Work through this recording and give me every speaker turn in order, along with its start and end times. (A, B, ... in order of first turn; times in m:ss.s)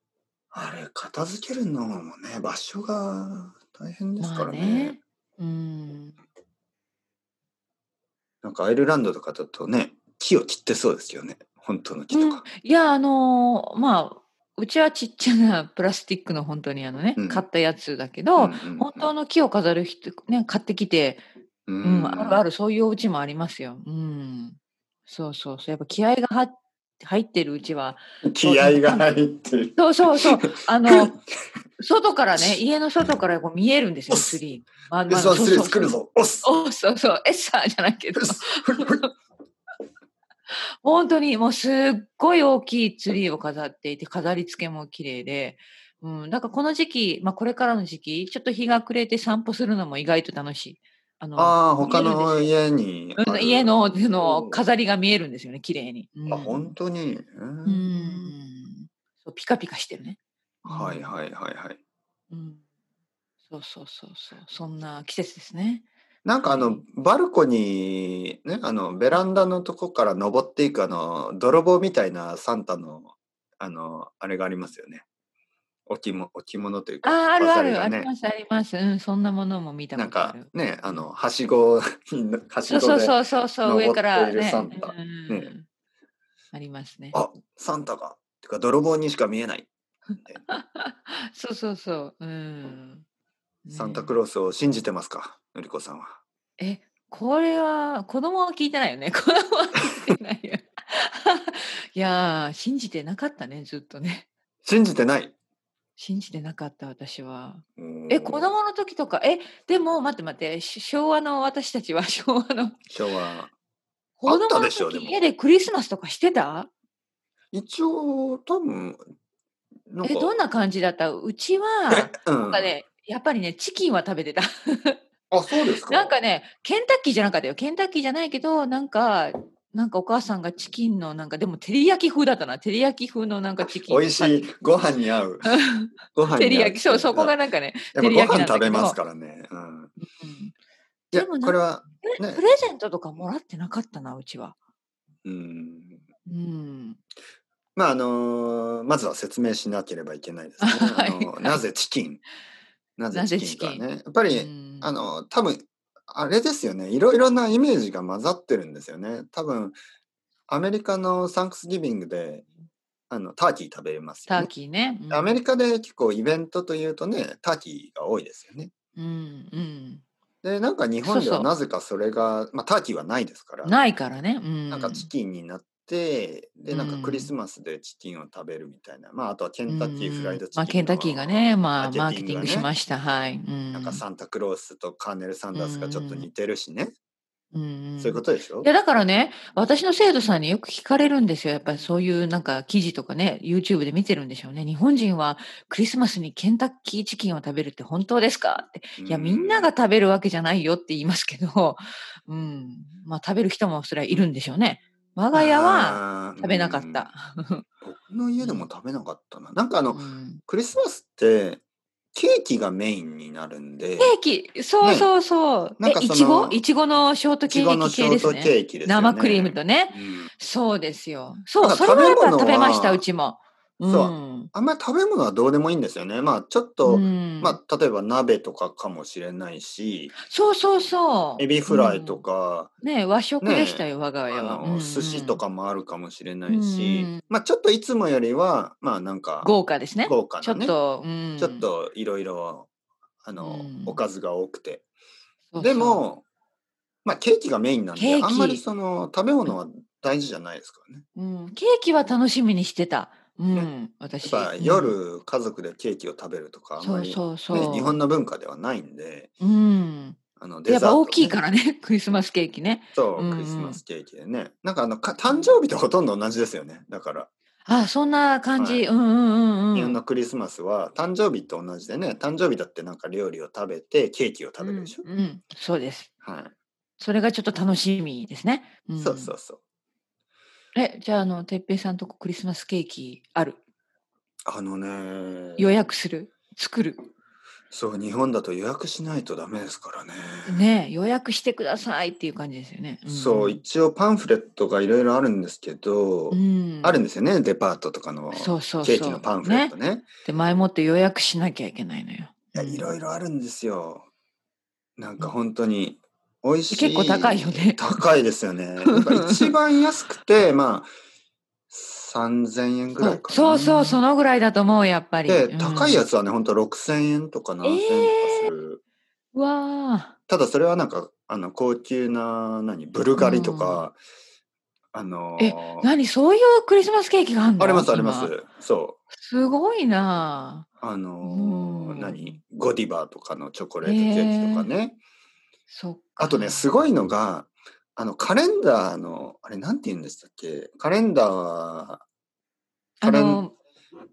0:00.5-0:05.0 A
0:04.2-0:06.2 B
0:08.4-0:12.4 A
0:12.1-0:21.2 B
0:17.2-0:17.4 A
0:18.4-0:19.1 A
0:21.7-0:22.4 A
0:21.8-0:24.6 B
0:25.1-0:29.1 B
0:28.2-0:31.2 A
0:29.8-0:31.2 B
0:31.8-0:39.1 B
0:32.4-0:33.1 A
0:34.1-0:34.4 A
0:35.1-0:36.5 A
0:38.2-0:39.0 A
0:40.8-0:52.5 B
0:51.4-0:54.6 A
0:53.2-0:56.7 B
0:56.3-0:58.3 A
0:57.7-1:01.1 B
1:00.6-1:01.8 A
1:02.3-1:02.6 B
1:03.5-1:05.9 B
1:06.2-1:15.0 A
1:06.4-1:06.8 B
1:15.9-1:18.1 A
1:17.0-1:21.1 B
1:20.0-1:25.5 A
1:22.7-1:25.7 B
1:26.5-1:27.2 B
1:27.1-1:29.7 A
1:30.5-1:33.0 B
1:33.6-1:34.2 B
1:33.7-1:36.2 A
1:36.6-1:44.3 B
1:44.6-1:45.3 A
1:46.0-1:52.8 B
1:47.8-1:48.6 A
1:52.9-1:53.5 A
1:54.2-1:56.7 B
1:54.3-1:55.3 A
1:57.5-1:59.0 A
1:59.9-2:00.4 A
2:00.0-2:05.0 B
2:01.9-2:02.8 A
2:05.3-2:06.2 A
2:05.8-2:14.5 B
2:13.6-2:15.6 A
2:15.5-2:19.0 B
2:16.1-2:17.4 A
2:17.9-2:19.9 A
2:20.1-2:20.5 B
2:21.1-2:22.4 A
2:21.1-2:24.6 B
2:25.2-2:26.0 A
2:26.3-2:27.0 B
2:27.8-2:32.2 A
2:30.6-2:31.6 B
2:33.0-2:39.8 A
2:33.1-2:34.9 B
2:40.5-2:42.5 A
2:43.1-2:44.5 A
2:44.3-2:45.4 B
2:45.1-2:48.7 A
2:49.0-2:50.0 B
2:50.4-2:53.8 A
2:51.0-2:51.5 B
2:53.6-2:55.1 B
2:54.7-3:02.7 A
2:56.7-2:57.3 B
2:59.7-3:04.0 B
3:03.7-3:06.9 A
3:05.6-3:06.3 B
3:07.5-3:27.6 B
3:08.0-3:08.7 A
3:19.0-3:19.7 A
3:25.3-3:27.1 A
3:27.8-3:31.6 A
3:28.4-3:28.7 B
3:29.9-3:30.4 B
3:32.1-3:34.1 A
3:34.0-3:44.5 B
3:34.8-3:35.1 A
3:35.8-3:36.6 A
3:37.5-3:40.3 A
3:41.6-3:43.0 A
3:43.8-3:50.1 A
3:46.8-3:47.6 B
3:50.2-3:52.2 B
3:51.4-3:52.7 A
3:52.8-3:55.4 B
3:53.4-4:00.8 A
3:56.5-3:57.2 B
3:59.4-4:01.7 B
4:01.4-4:02.7 A
4:03.2-4:04.9 A
4:03.4-4:04.0 B
4:05.5-4:06.1 B
4:05.6-4:06.2 A
4:07.0-4:11.0 A
4:08.0-4:08.6 B
4:11.2-4:15.0 B
4:13.5-4:19.3 A
4:16.8-4:18.0 B
4:19.4-4:23.8 B
4:20.4-4:21.4 A
4:22.9-4:27.3 A
4:25.3-4:25.6 B
4:27.7-4:30.0 B
4:28.6-4:28.9 A
4:29.7-4:35.1 A
4:34.6-4:36.1 B
4:36.2-4:36.5 A
4:37.0-4:39.3 B
4:39.0-4:39.6 A
4:40.8-4:43.6 B
4:44.5-4:45.9 A
4:45.6-4:47.1 B
4:47.7-4:50.7 A
4:50.4-4:53.6 B
4:53.1-5:00.1 A
4:56.3-4:57.0 B
4:58.3-5:02.9 B
5:02.5-5:04.1 A
5:05.0-5:10.9 A
5:06.7-5:08.0 B
5:08.8-5:09.6 B
5:11.7-5:14.0 A
5:13.0-5:16.1 B
5:15.3-5:18.8 A
5:17.6-5:18.6 B
5:19.3-5:20.1 B
5:20.3-5:24.0 A
5:23.2-5:23.9 B
5:24.9-5:25.9 A
5:25.4-5:28.3 B
5:27.6-5:29.0 A
5:29.1-5:30.7 B
5:30.8-5:35.0 A
5:31.2-5:32.4 B
5:33.8-5:34.7 B
5:35.7-5:36.6 B
5:36.2-5:42.0 A
5:43.0-5:43.5 B
5:43.0-5:43.4 A